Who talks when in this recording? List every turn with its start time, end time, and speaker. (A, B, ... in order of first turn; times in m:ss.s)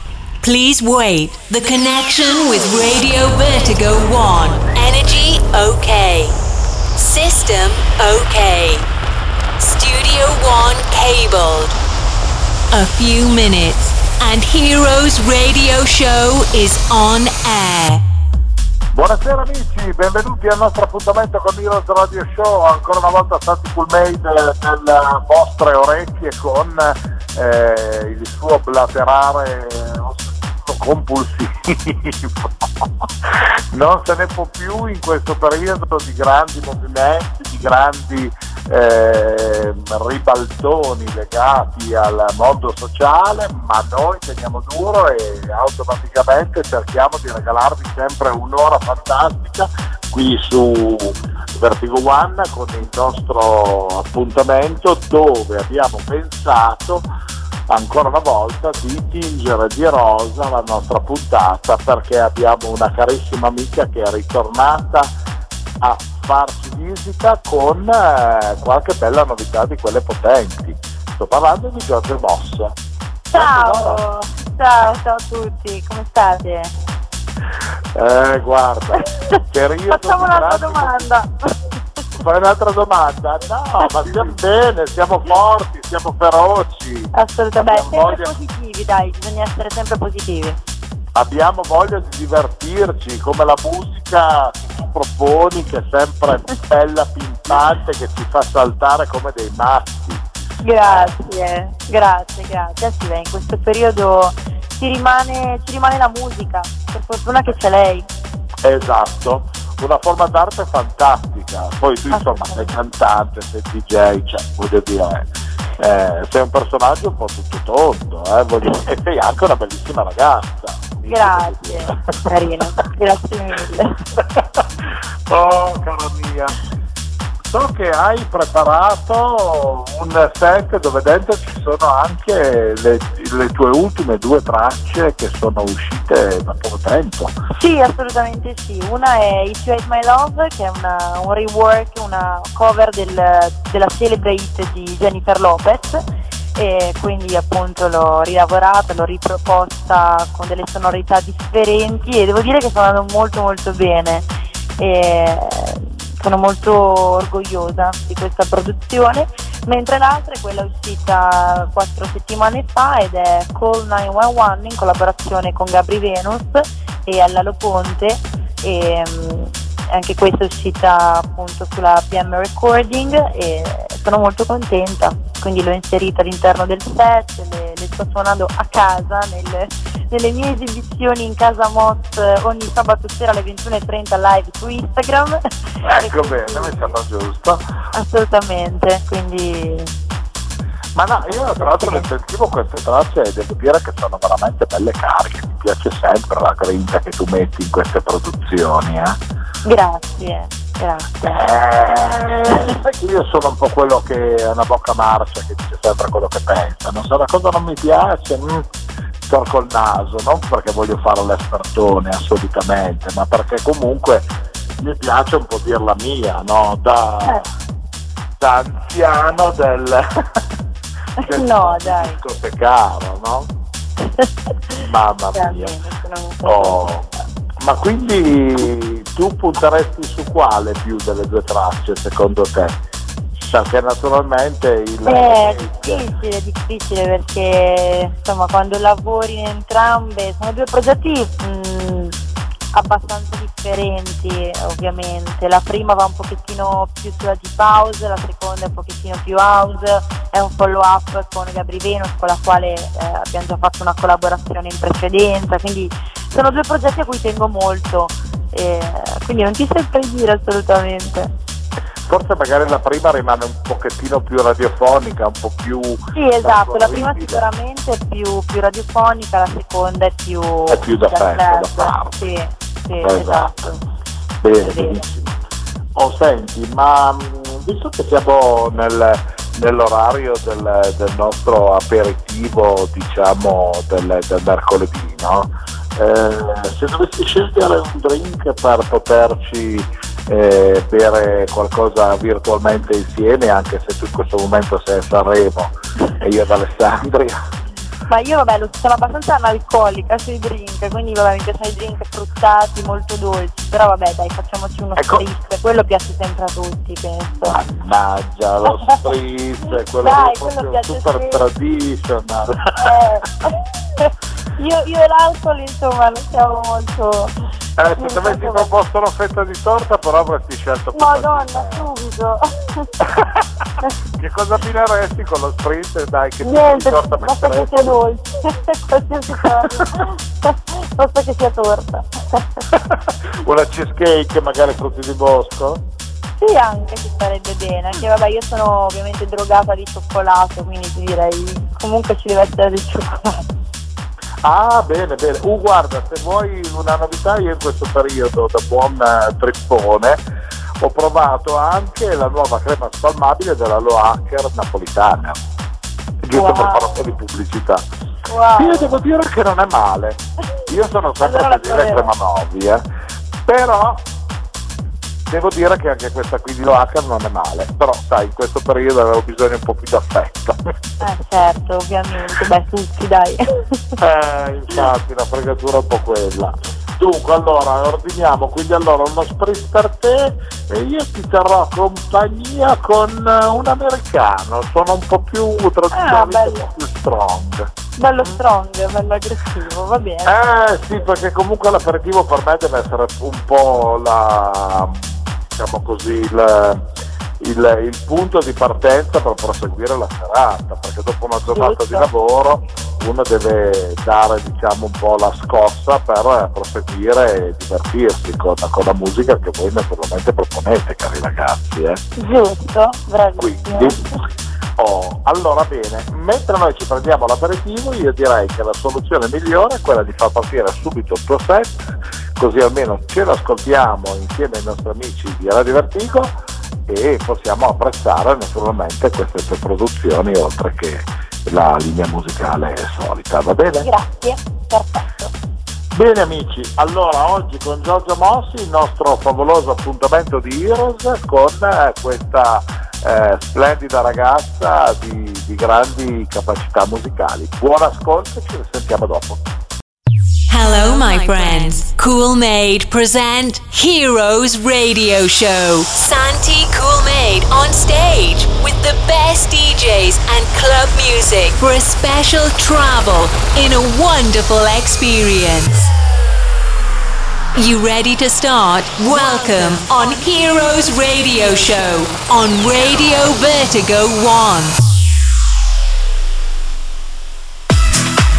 0:00.4-0:06.3 A
0:07.0-0:08.8 A
0:09.6-0:11.8 A
0:12.7-0:18.0 A
0:18.9-0:57.1 B
0:57.7-1:05.1 B
1:05.8-1:12.8 B
1:13.3-1:14.0 B
1:13.3-1:16.7 C
1:17.9-1:21.1 B
1:19.9-1:21.5 C
1:22.2-1:28.3 B
1:23.8-1:24.3 C
1:27.1-1:30.6 C
1:31.1-1:40.2 B
1:40.6-1:48.1 C
1:40.8-1:41.1 B
1:48.6-2:02.2 B
1:52.1-1:52.7 C
2:01.1-2:04.0 C
2:04.2-2:06.6 B
2:07.5-2:17.3 B
2:17.6-2:26.0 C
2:26.6-3:06.9 C
3:05.8-3:07.6 B
3:07.9-3:09.9 C
3:11.0-3:19.2 B
3:11.6-3:12.1 C
3:19.6-3:21.4 C
3:21.2-3:28.7 B
3:29.3-3:34.3 B
3:34.8-3:37.5 B
3:38.4-3:40.4 B
3:41.2-3:42.2 C
3:41.2-3:43.5 B
3:44.0-3:44.8 C
3:44.8-3:45.8 B
3:45.3-3:46.8 C
3:46.4-3:47.1 B
3:47.6-3:52.8 B
3:53.4-3:56.1 B
3:55.0-4:02.2 C
4:02.7-4:21.3 C
4:22.0-4:27.4 B
4:26.2-4:33.8 C
4:30.7-4:32.2 B
4:33.0-4:33.5 B
4:34.4-4:35.4 B
4:34.6-4:35.0 C
4:36.0-4:57.4 B
4:58.1-5:07.6 C
5:05.0-5:05.2 B
5:07.4-5:12.9 B
5:10.0-5:11.4 C
5:12.8-5:17.3 C
5:17.8-5:21.9 B
5:18.0-5:18.7 C
5:20.9-5:22.9 C
5:23.0-5:23.4 B
5:24.2-5:27.9 B
5:26.4-5:32.6 C
5:29.4-5:29.8 B
5:32.7-5:35.8 B
5:36.4-5:43.4 C
5:44.4-5:50.2 B
5:50.8-5:55.4 B
5:56.2-5:57.8 B
5:56.3-5:57.0 C
5:58.3-5:58.9 C
5:58.6-6:02.8 B
6:01.2-6:02.1 C
6:03.4-6:04.0 B
6:05.3-6:10.6 B
6:11.0-6:13.8 C
6:14.0-6:28.4 B
6:25.9-6:26.6 C
6:28.0-6:30.3 C
6:30.2-6:36.8 B
6:37.4-6:52.0 B
6:41.5-6:42.1 C
6:52.2-6:54.0 C
6:53.4-6:54.0 B
6:54.8-7:01.8 B
7:02.4-7:13.9 B
7:13.8-7:15.3 C
7:15.9-7:29.4 B
7:30.5-7:45.9 A
7:47.5-7:54.8 A